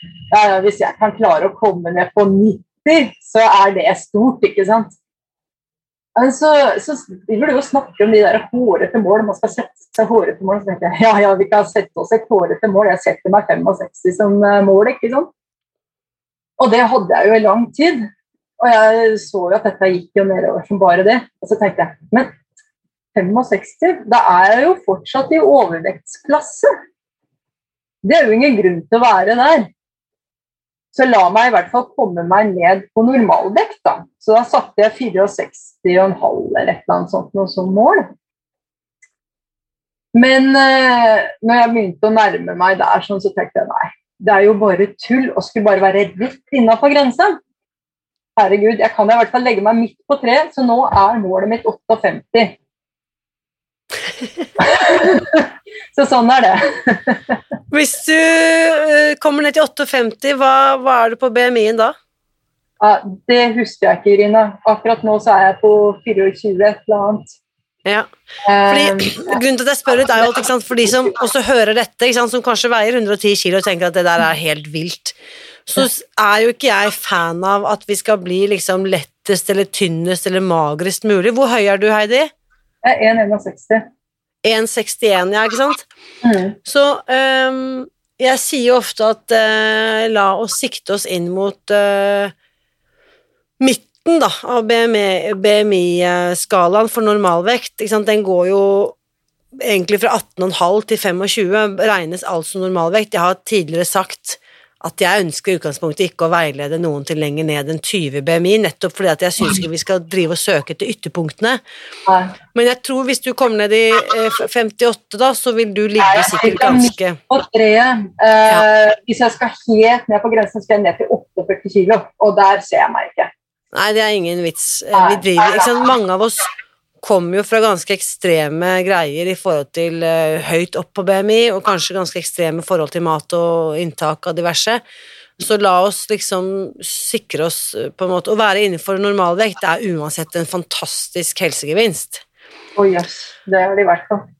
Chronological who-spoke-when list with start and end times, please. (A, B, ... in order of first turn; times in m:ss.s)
0:00.3-0:04.9 A
0:06.1-0:15.3 A
0:16.6-0:22.3 A
0:23.1-0:26.7 A
0:28.0-0:29.7 A
0:30.9-0:38.1 A
0:40.1-0:47.4 A
0:48.4-0:52.5 A
0:54.6-0:57.4 A
0:57.7-1:01.9 B
1:02.8-1:07.3 A
1:08.4-1:09.4 A
1:08.6-1:22.3 B
1:22.8-1:23.8 A
1:24.4-1:25.8 B
1:26.2-1:26.6 A
1:26.6-1:32.3 B
1:33.6-1:39.0 B
1:39.6-1:51.6 B
1:52.0-1:52.3 A
1:52.5-1:57.2 B
1:56.0-2:03.3 A
2:03.7-2:06.5 B
2:04.9-2:05.6 A
2:07.0-2:14.8 B
2:15.4-2:22.2 B
2:22.8-2:24.2 A